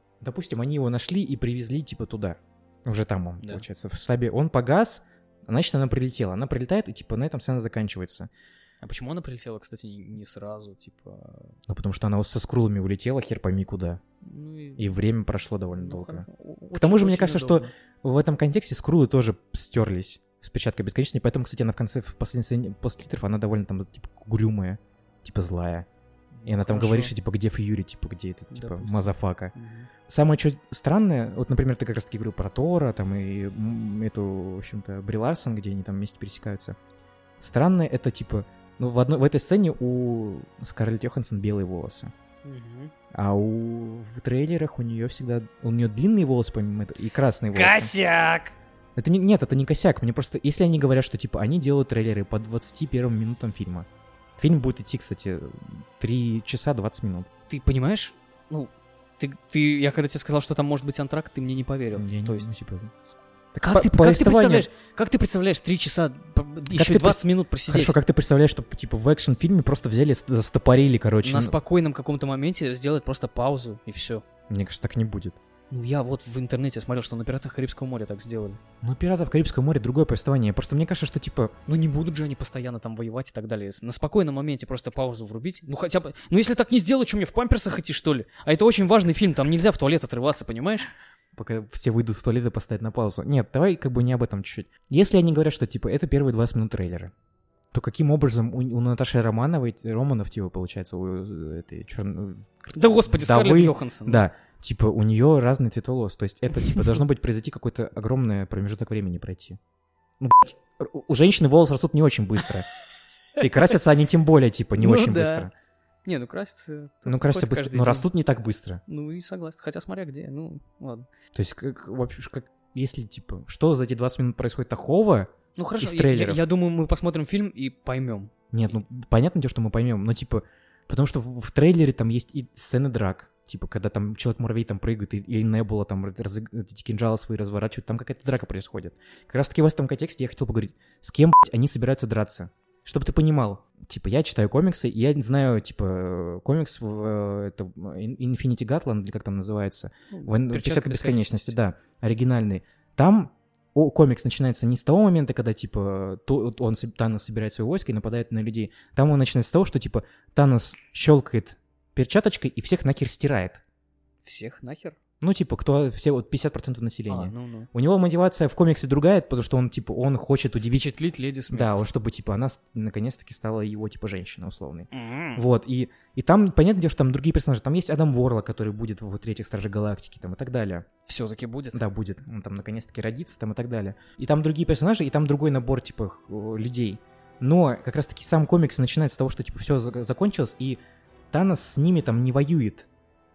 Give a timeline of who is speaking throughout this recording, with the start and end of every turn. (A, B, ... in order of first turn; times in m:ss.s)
0:00.2-0:08.3 A
0:08.8-0:11.6 B
0:11.7-0:14.0 A
0:14.2-0:14.9 B
0:14.8-0:25.9 A
0:15.8-0:17.7 B
0:26.3-0:27.1 B
0:26.4-0:29.5 A
0:28.5-0:29.9 B
0:30.1-0:36.8 A
0:37.4-0:42.1 A
0:42.4-0:42.9 B
0:43.1-0:47.9 A
0:47.5-0:48.6 B
0:49.0-0:57.3 A
0:57.5-1:02.5 B
1:01.9-1:02.9 A
1:03.5-1:04.7 A
1:03.6-1:08.0 B
1:06.7-1:11.6 A
1:11.2-1:14.2 B
1:14.5-1:15.4 A
1:15.7-1:18.6 B
1:18.8-1:21.5 A
1:21.7-1:30.9 B
1:31.3-1:37.1 A
1:37.7-1:49.6 A
1:42.7-1:44.2 B
1:50.2-1:52.7 A
1:53.4-1:55.5 A
1:54.8-1:55.5 B
1:56.0-1:58.1 B
1:57.0-1:58.8 A
1:58.9-2:01.1 B
2:01.3-2:06.4 A
2:05.6-2:08.3 B
2:08.5-2:43.6 A
2:30.1-2:31.6 B
2:44.2-2:45.0 B
2:45.2-2:50.9 A
2:47.1-2:47.7 B
2:50.6-2:51.9 B
2:51.5-3:00.9 A
2:54.9-2:55.4 B
3:01.0-3:01.8 B
3:01.7-3:10.8 A
3:11.3-3:12.9 A